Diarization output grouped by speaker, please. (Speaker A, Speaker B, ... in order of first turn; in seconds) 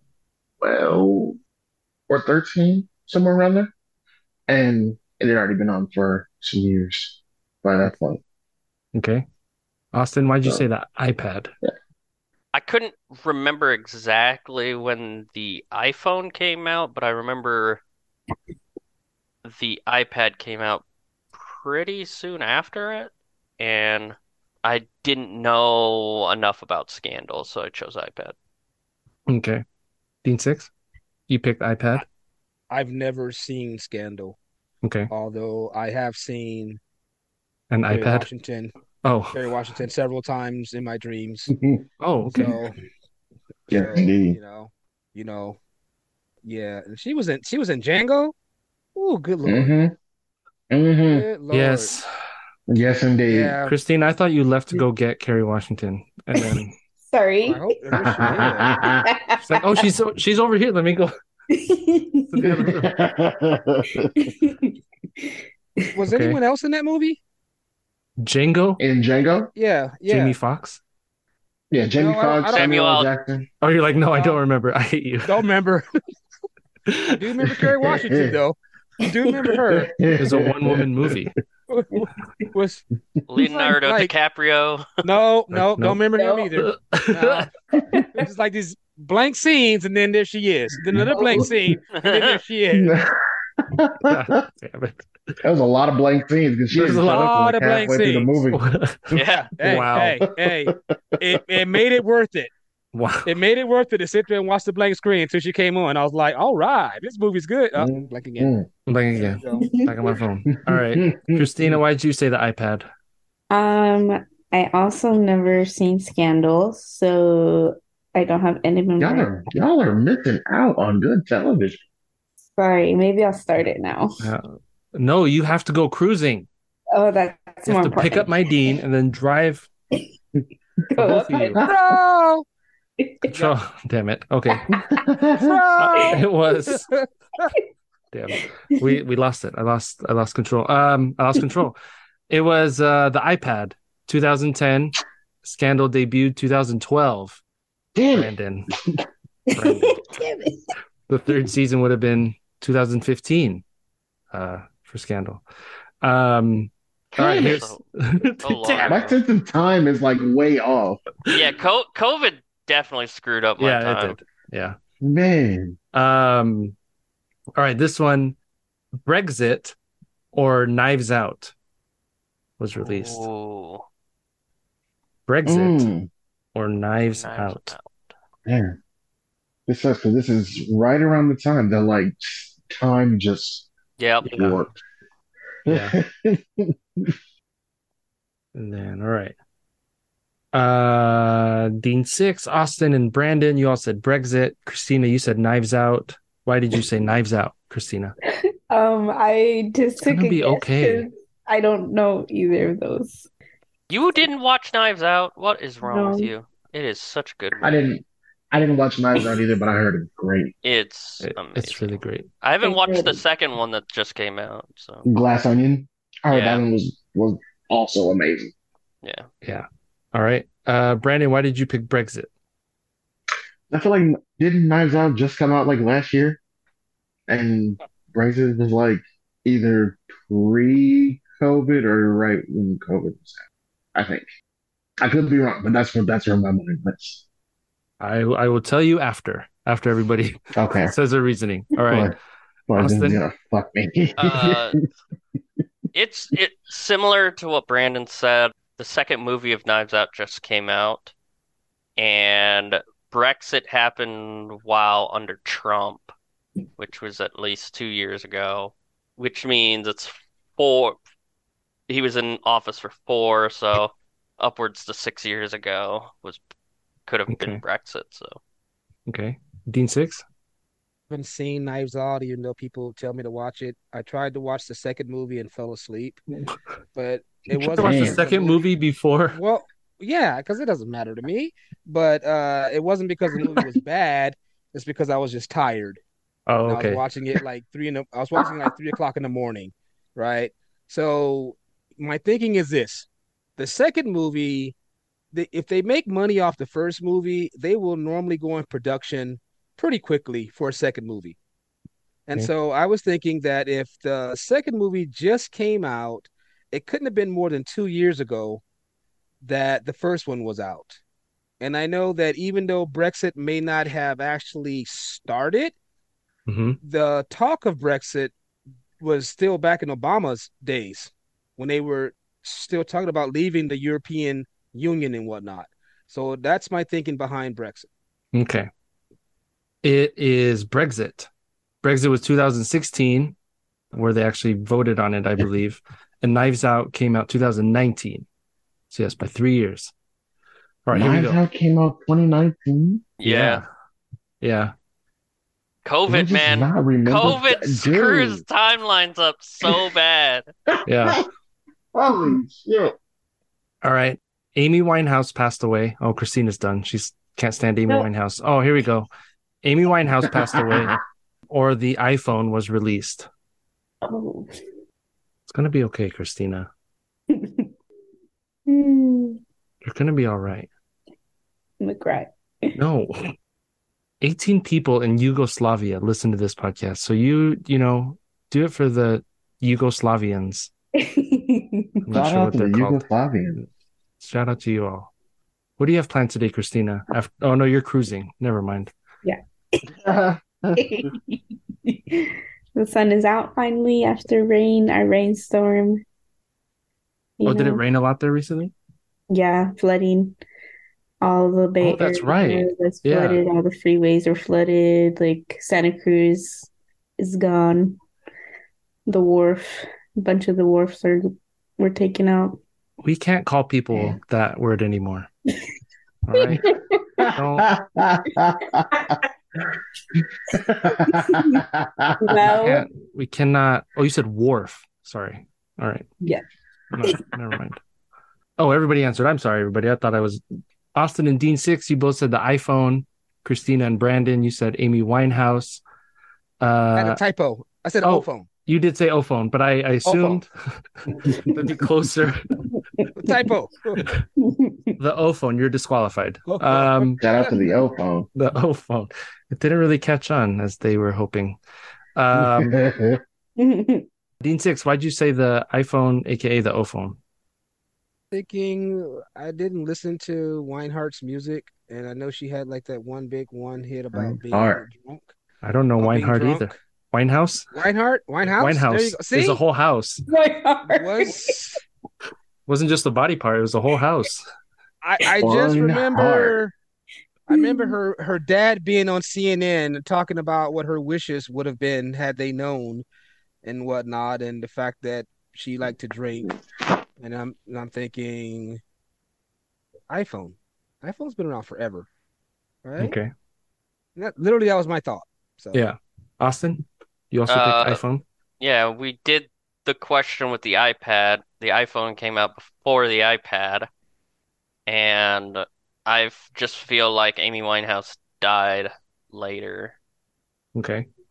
Speaker A: 0.6-1.4, 2.1-3.7, 4.5-8.2, 41.5-41.8, 43.7-44.4, 49.5-49.9, 50.7-51.3, 52.7-53.6, 58.0-59.0, 62.4-64.3, 68.8-69.5, 71.7-73.5, 77.6-78.4, 79.7-81.2, 90.9-91.7, 92.7-93.1, 93.7-94.4, 95.4-98.6, 99.7-101.4, 107.8-108.7, 110.5-111.8, 119.0-121.8, 135.0-135.6, 148.0-148.3, 157.2-157.6, 158.8-161.0, 165.0-165.8, 175.5-176.1, 178.5-178.8, 179.7-183.7, 184.3-184.8, 185.7-187.2, 207.6-210.5, 215.1-218.5, 223.7-226.4, 227.3-233.4, 233.9-234.3, 235.0-237.2, 240.6-240.9, 241.9-242.2, 242.7-244.7, 277.8-278.2, 340.9-343.1, 346.1-348.4, 351.9-352.9, 360.3-361.0, 382.1-383.6, 390.0-391.1, 417.2-419.1, 420.5-422.4, 447.2-448.3, 452.3-453.2, 464.1-464.8, 475.4-476.6
Speaker B: 8.9-9.2, 9.9-11.5, 29.3-29.6, 30.2-30.7, 31.3-32.0, 34.8-35.1, 37.7-38.3, 39.0-39.4, 42.0-42.5, 51.5-52.1, 53.7-56.8, 59.5-61.1, 62.3-62.9, 66.1-66.4, 68.2-68.8, 70.1-70.8, 73.6-75.4, 76.9-77.6, 80.2-81.3, 85.5-86.0, 86.6-87.5, 94.1-95.3, 96.7-97.3, 98.5-100.2, 102.9-103.3, 108.9-112.9, 124.2-126.5, 127.7-129.7, 131.0-131.6, 133.3-134.7, 135.8-136.8, 138.1-141.8, 142.3-147.4, 148.1-148.7, 149.6-150.1, 151.1-153.6, 154.3-155.4, 156.0-159.0, 163.6-164.8, 165.9-166.8, 167.6-168.4, 169.1-169.8, 170.3-171.5, 172.6-173.2, 175.3-175.9, 176.6-177.8, 184.2-184.6, 185.7-186.0, 188.6-189.3, 190.5-198.1, 200.0-201.1, 211.2-212.3, 219.4-222.3, 238.0-242.2, 242.8-243.2, 267.3-267.6, 269.1-270.2, 277.6-279.4, 286.5-287.0, 316.5-316.8, 328.3-328.7, 329.8-331.3, 331.8-333.4, 333.9-338.3, 338.9-339.9, 340.9-341.4, 343.2-343.7, 344.4-344.7, 350.9-351.2, 353.8-359.1, 359.6-361.0, 361.5-363.3, 365.5-366.7, 369.8-370.7, 372.8-373.3, 374.2-380.7, 382.1-383.1, 384.2-385.1, 385.8-388.9, 397.4-398.7, 401.8-403.4, 413.0-415.3, 416.3-416.6, 417.3-417.7, 422.5-426.1, 426.9-427.8, 428.6-430.4, 430.9-435.8, 436.6-437.2, 438.0-440.5, 441.1-442.5, 445.0-447.2, 448.4-451.6, 452.2-452.8, 454.4-457.2, 465.6-467.7, 468.4-470.2, 472.7-474.5, 493.0-493.3, 495.7-498.2, 510.8-511.1
Speaker C: 12.5-17.8, 19.4-20.8, 21.4-28.4, 72.5-73.1, 83.3-85.0, 91.9-92.4, 99.1-99.6, 157.2-157.8, 158.4-159.2, 161.3-164.2, 172.8-173.9, 177.1-178.1, 184.0-184.4, 203.9-207.8, 210.6-215.1, 216.3-216.6, 244.2-244.8, 245.9-251.1, 252.0-256.1, 256.8-261.0, 261.9-266.4, 267.1-268.4, 343.2-343.6, 345.9-350.5, 497.5-498.0, 498.6-503.9, 504.9-510.0
Speaker D: 32.7-34.4, 35.1-36.8, 37.9-38.7, 39.3-41.5, 42.3-42.8, 43.7-45.6, 46.5-48.3, 49.0-49.7, 51.1-52.0, 53.3-53.8, 57.5-58.8, 66.0-67.2, 69.6-70.4, 72.0-72.8, 74.1-74.4, 75.2-75.9, 77.2-80.0, 81.7-82.8, 83.4-84.1, 85.0-87.5, 88.2-93.0, 97.0-98.5, 99.2-102.5, 103.2-108.5, 109.1-109.7, 131.6-132.5, 135.3-137.5, 271.1-276.2, 276.9-278.7, 279.3-286.0, 286.7-294.8, 295.3-301.4, 302.3-308.6, 309.4-311.0, 311.6-315.8, 316.8-318.3, 319.0-327.9, 436.9-438.5, 440.0-440.4, 443.2-444.0, 446.4-447.1, 458.3-465.3, 466.0-466.8, 467.7-469.6, 470.9-471.8, 475.0-476.7, 477.5-483.1, 483.6-486.5, 487.2-488.8, 490.1-492.1, 492.8-493.2, 494.2-495.8
Speaker E: 56.3-57.9, 59.0-59.9, 61.5-62.6, 64.2-66.0, 86.1-86.5, 88.0-88.3, 91.1-91.5, 109.5-110.2, 113.5-119.5, 122.5-124.3, 126.9-128.8, 130.9-131.7, 133.0-133.3, 134.5-135.0, 138.3-139.0, 149.5-150.6, 198.7-203.3, 205.8-206.3, 212.6-213.2, 364.1-364.5, 367.3-367.7, 368.7-369.4, 371.8-372.8, 381.0-382.2, 389.2-389.8, 390.8-396.0, 397.4-397.8, 399.3-400.4, 401.2-408.0, 409.1-412.6, 416.3-417.2, 421.1-421.6, 422.2-422.9, 427.0-427.4, 441.2-441.8, 443.0-443.3, 444.4-445.0, 453.6-454.1, 470.3-471.6, 477.5-478.0